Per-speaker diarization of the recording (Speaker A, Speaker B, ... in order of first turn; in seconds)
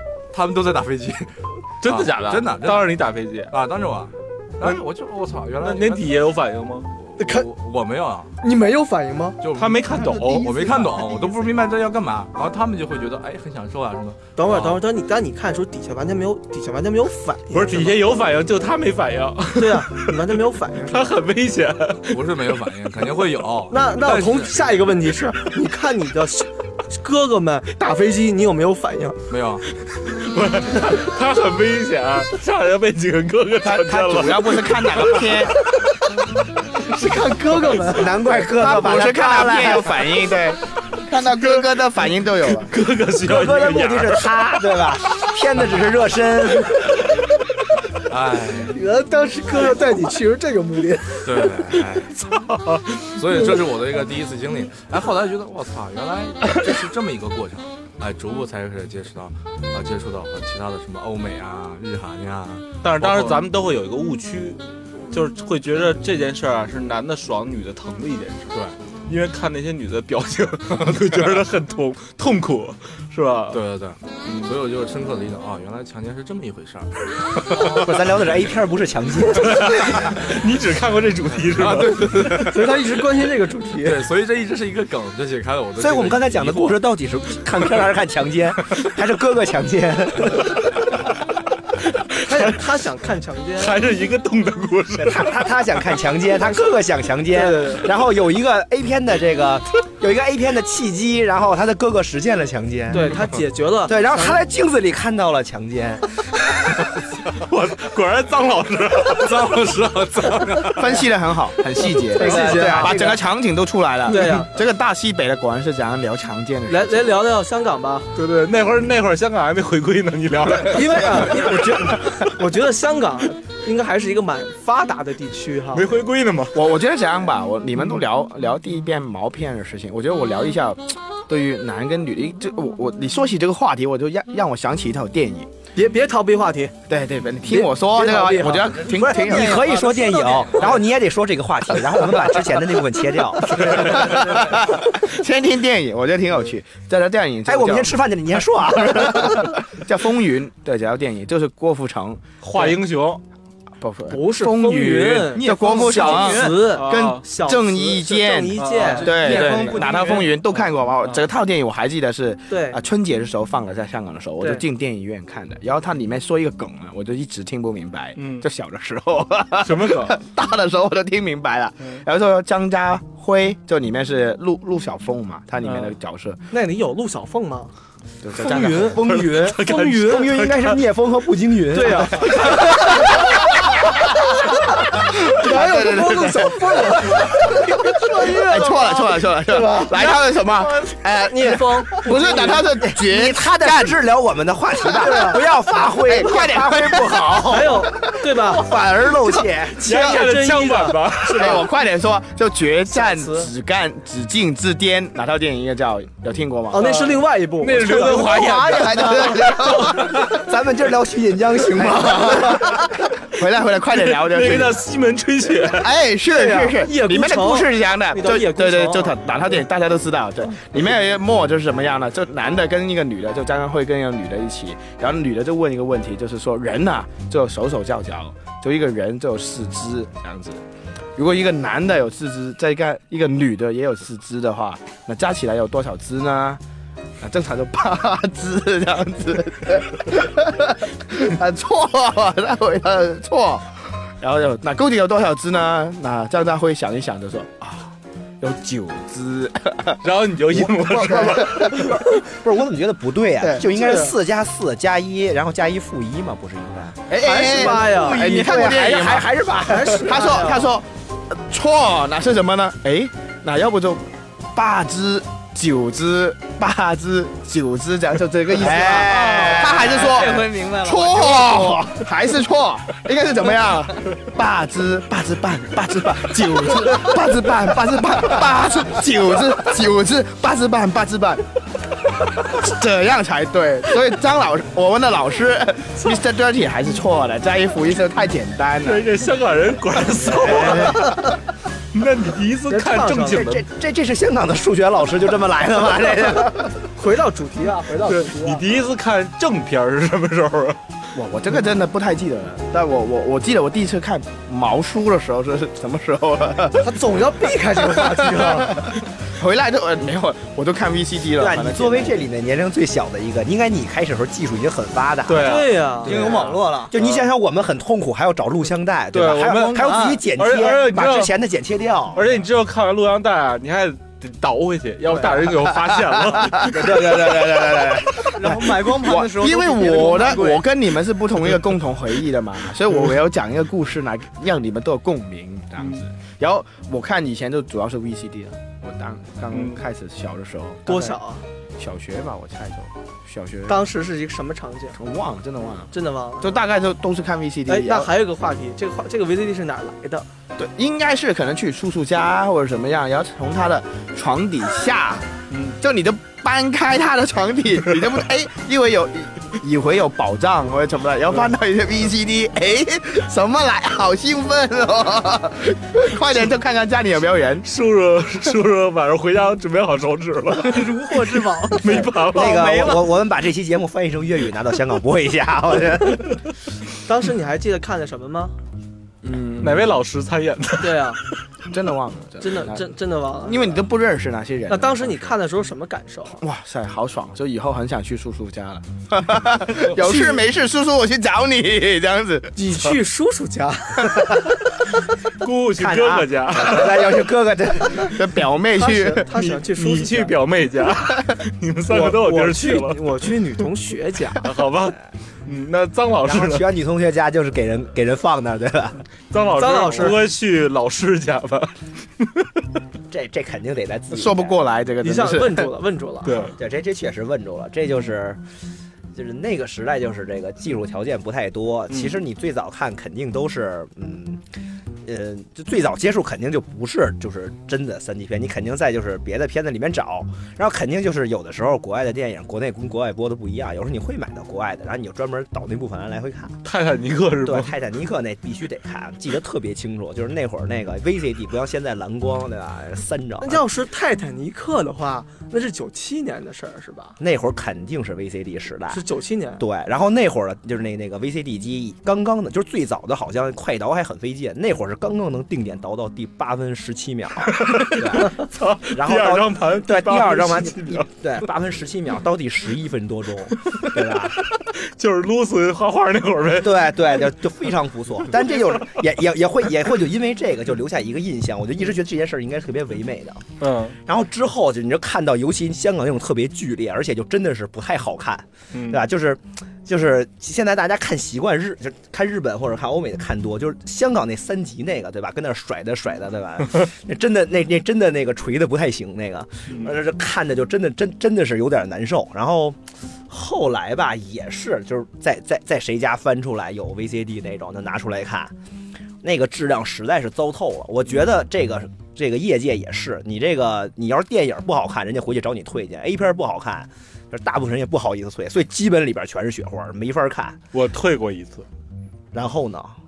Speaker A: 0.3-6.2, 7.0-8.3, 9.4-14.8, 22.1-24.7, 29.3-29.7, 48.1-48.8, 51.2-52.2, 53.1-63.5, 70.7-71.3, 73.5-78.0, 81.5-82.8, 83.8-86.8, 109.1-111.0
Speaker B: 1.8-3.5, 5.6-6.9, 9.6-10.5, 17.5-20.1, 20.9-22.2, 30.1-35.4, 41.4-41.7, 42.5-44.4, 52.3-53.1, 62.8-68.5, 69.1-73.6, 79.3-82.3, 92.2-92.6, 93.6-95.4, 107.3-109.4, 118.2-122.0, 125.7-126.6, 152.4-153.2, 156.6-157.2, 158.6-159.7, 168.2-168.5, 169.6-170.2, 175.6-175.9, 178.8-180.8, 199.8-201.6, 206.7-210.1, 213.9-215.9, 250.0-251.9, 288.8-291.3, 291.9-293.6, 298.1-300.8, 315.3-315.8, 317.0-317.2, 319.1-321.4, 322.1-327.3, 339.5-339.8, 367.6-370.9, 371.8-372.9, 379.6-381.2, 395.4-397.2, 399.3-403.2, 404.4-406.7, 409.3-412.5, 416.2-416.5, 421.9-422.2, 436.6-437.7, 457.5-461.1, 463.7-467.2, 468.5-468.8, 473.6-474.0, 478.7-479.0, 489.7-489.9, 510.7-511.7
Speaker C: 7.2-7.5, 8.4-9.4, 14.4-18.1, 19.6-21.2, 23.7-29.2, 36.9-38.1, 48.7-51.3, 82.3-84.0, 92.2-93.8, 97.3-97.9, 102.9-104.4, 112.1-113.0, 114.1-114.5, 116.7-118.1, 120.7-125.9, 135.8-136.8, 137.5-138.8, 154.1-159.9, 162.5-162.8, 176.5-177.7, 178.4-179.1, 179.7-180.2, 181.7-183.1, 185.3-192.7, 195.0-195.4, 197.5-198.7, 199.8-201.6, 202.9-203.5, 206.7-209.3, 216.2-219.6, 253.8-254.1, 257.2-258.4, 259.7-260.7, 292.7-293.5, 297.0-298.6, 306.8-308.8, 315.4-316.2, 340.9-341.4, 343.7-345.0, 345.9-346.6, 347.7-350.3, 371.2-371.8, 377.0-378.6, 380.8-381.2, 382.4-383.8, 384.7-386.4, 392.6-394.4, 398.8-400.3, 401.9-404.4, 409.6-410.2, 415.0-416.5, 443.4-447.2, 448.9-449.6
Speaker D: 33.6-35.6, 38.2-42.7, 110.7-117.2, 126.5-135.5, 136.9-139.8, 143.7-148.0, 148.8-152.2, 153.8-176.4, 178.2-179.3, 183.2-184.0, 184.9-194.0, 194.9-200.3, 201.2-206.9, 207.8-210.2, 211.7-214.8, 215.7-230.6, 231.2-236.6, 237.2-251.9, 257.1-281.4, 282.2-289.1, 290.3-290.9, 301.1-312.3, 326.3-341.2, 341.8-343.9, 344.9-348.1, 350.6-367.7, 379.2-379.9, 381.7-385.4, 386.4-392.7, 397.9-399.3, 414.1-415.7
Speaker E: 37.8-40.1, 43.2-47.0, 77.6-80.1, 85.8-90.6, 95.0-103.2, 103.9-106.2, 112.1-113.2, 138.9-144.2, 147.5-149.6, 179.0-183.1, 192.9-197.9, 198.5-199.8, 209.7-212.8, 251.3-260.3, 268.5-270.3, 276.7-276.9, 290.4-290.9, 293.3-296.8, 311.4-322.2, 326.8-328.0, 371.9-376.4, 395.8-398.1, 406.2-409.0, 413.1-414.6, 416.6-418.4, 419.1-424.4, 425.1-436.6, 437.4-443.6, 447.2-449.0, 449.6-464.4, 466.6-473.4, 474.1-498.5, 499.2-510.6, 512.3-513.0
Speaker F: 138.7-140.7, 155.4-156.6, 158.8-160.3, 188.3-188.9, 268.9-271.9, 316.1-316.9, 319.7-320.2, 328.3-330.6, 370.7-371.8, 372.4-373.0